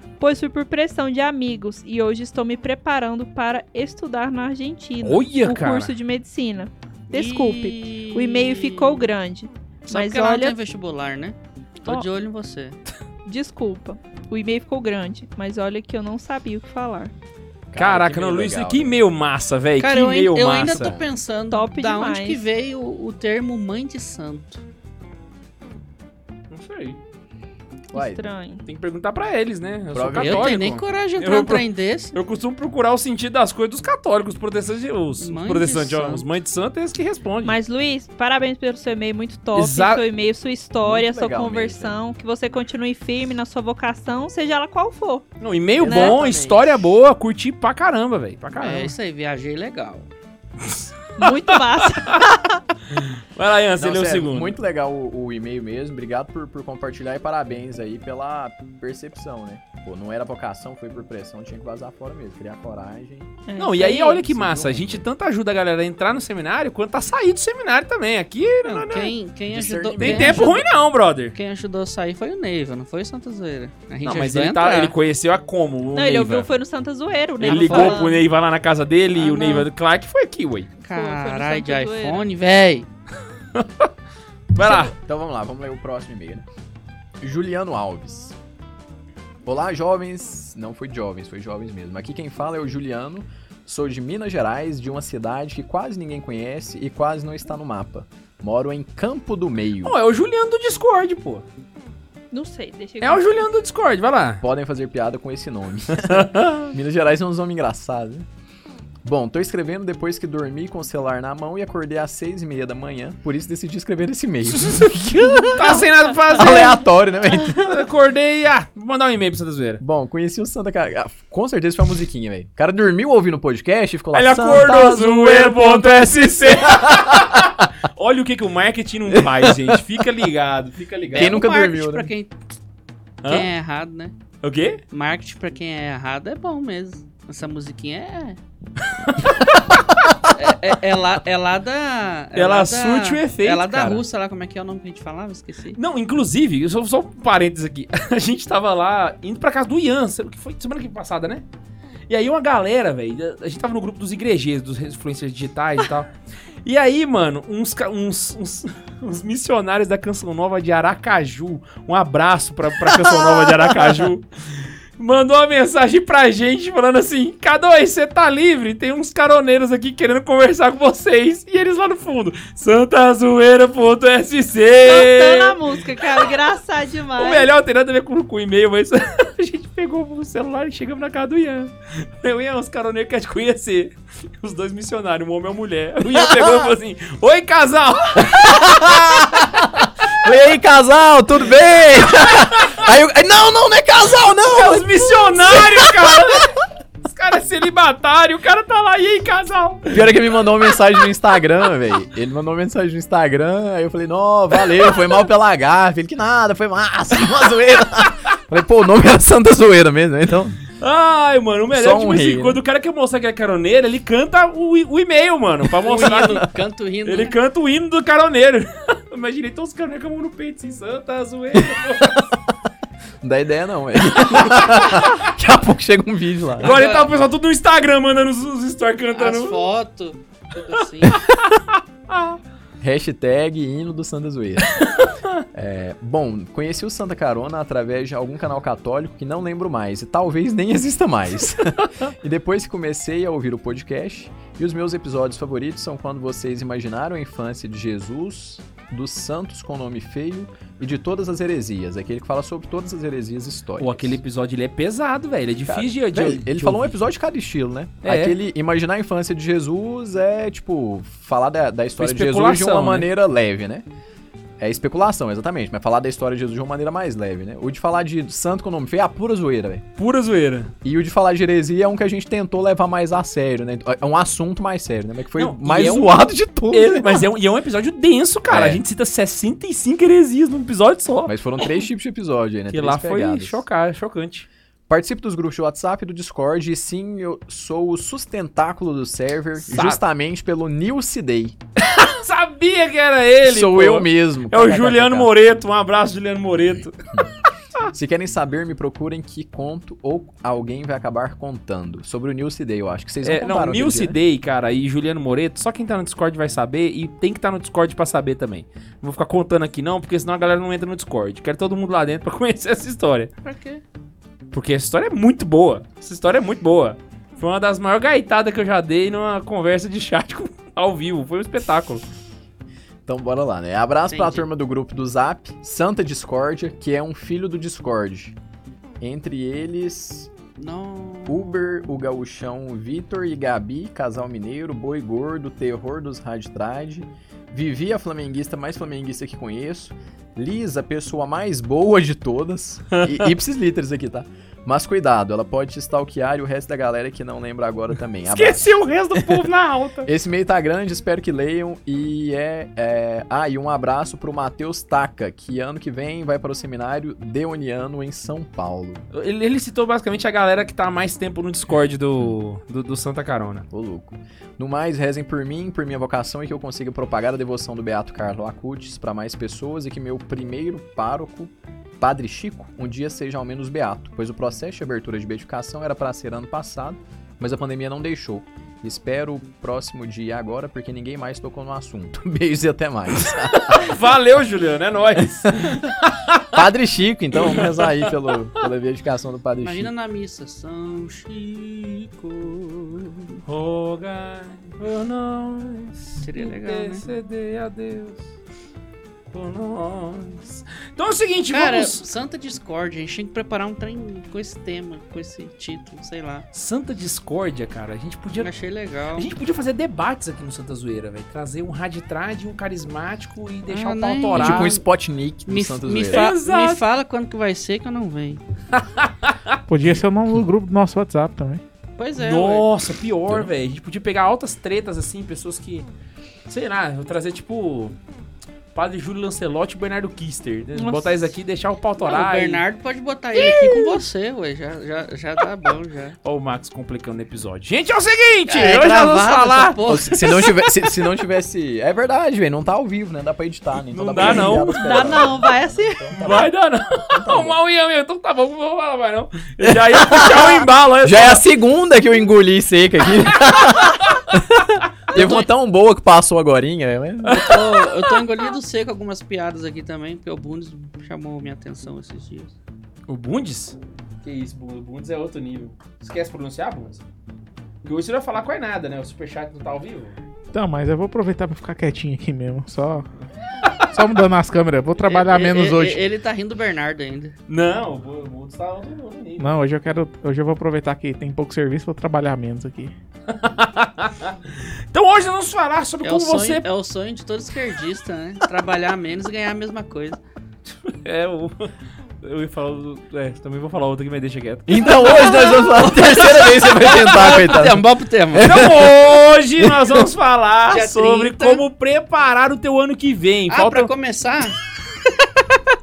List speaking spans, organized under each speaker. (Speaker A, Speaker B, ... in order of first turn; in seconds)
Speaker A: 0.2-10.6, 13.2-17.1, 21.5-22.4, 27.9-28.6, 37.4-45.3, 45.9-46.2, 51.2-52.6, 63.5-64.2, 75.9-78.2, 79.2-79.7, 80.9-82.2, 84.6-84.9, 102.3-103.5, 174.8-177.5, 430.7-431.3, 444.2-446.2
Speaker B: 5.0-5.9, 17.8-20.9, 26.5-27.0, 28.6-37.6, 39.5-40.0, 45.4-48.9, 50.7-52.2, 52.9-54.5, 63.6-69.1, 70.0-71.3, 74.0-76.5, 77.4-80.7, 83.5-83.9, 84.5-84.9, 99.8-101.4, 103.0-104.4, 106.1-106.7, 115.5-116.8, 117.5-119.8, 124.1-131.4, 133.2-133.5, 134.4-134.8, 139.0-139.5, 142.3-144.0, 145.7-151.4, 152.1-156.1, 156.6-175.6, 177.2-189.2, 192.4-192.8, 194.5-200.0, 210.8-216.4, 217.1-222.3, 224.3-225.1, 226.6-229.6, 231.1-232.4, 234.8-235.4, 253.8-256.9, 258.0-258.4, 262.0-263.1, 270.0-270.7, 275.4-276.1, 276.7-281.6, 282.7-284.5, 289.7-290.0, 291.9-296.9, 303.2-313.3, 314.5-322.0, 343.0-343.3, 348.3-350.1, 359.1-363.6, 383.6-386.6, 387.4-388.1, 393.4-398.3, 399.3-402.1, 406.5-408.5, 409.1-414.7, 416.1-416.8, 418.8-419.5, 422.2-425.9, 426.5-428.0, 428.7-432.6, 433.3-434.0, 436.2-439.8, 443.9-445.3, 446.2-451.4, 457.2-458.1, 463.1-467.0, 467.8-470.1, 477.5-479.4, 483.3-486.6, 490.8-491.7, 492.2-497.5, 498.4-503.9
Speaker C: 7.1-9.1, 9.8-12.8, 19.8-24.6, 30.1-32.1, 35.2-36.2, 48.6-50.1, 68.6-70.6, 71.3-74.9, 77.4-78.1, 80.8-82.9, 131.1-132.3, 133.2-134.1, 134.9-138.4, 140.3-145.8, 215.8-217.3, 226.6-227.2, 229.1-231.2, 313.4-313.8, 324.1-324.4, 330.6-331.5, 389.6-393.4, 396.2-397.0, 401.5-406.5, 408.4-409.3, 413.7-414.8, 415.4-418.4, 422.0-422.6, 432.0-436.2, 438.5-440.9, 457.3-462.6, 475.1-477.3, 486.0-490.2, 494.8-495.6, 496.8-498.5, 500.7-501.6, 503.5-504.6
Speaker D: 17.7-19.0, 20.6-21.1, 27.9-28.2, 29.9-30.6, 40.8-42.0, 45.8-46.8, 53.8-63.4, 64.0-65.1, 69.5-70.6, 84.9-86.4, 87.2-88.3, 89.4-100.0, 104.4-108.3, 109.0-117.9, 119.8-127.5, 129.1-129.8, 131.1-132.1, 162.9-164.1, 186.0-186.7, 188.2-196.5, 199.9-210.6, 211.7-212.6, 223.2-226.8, 232.8-234.7, 235.5-254.2, 255.7-263.9, 264.6-269.8, 270.8-277.2, 278.5-278.8, 281.2-283.6, 284.9-291.6, 293.4-295.3, 297.9-304.2, 323.1-328.4, 329.0-330.3, 331.2-349.4, 350.0-359.0, 363.7-383.9, 386.5-389.9, 414.3-416.3, 439.9-446.5, 447.1-447.6, 449.6-457.5, 494.7-500.1
Speaker E: 419.7-421.6, 470.5-473.1, 473.9-476.0, 479.4-482.9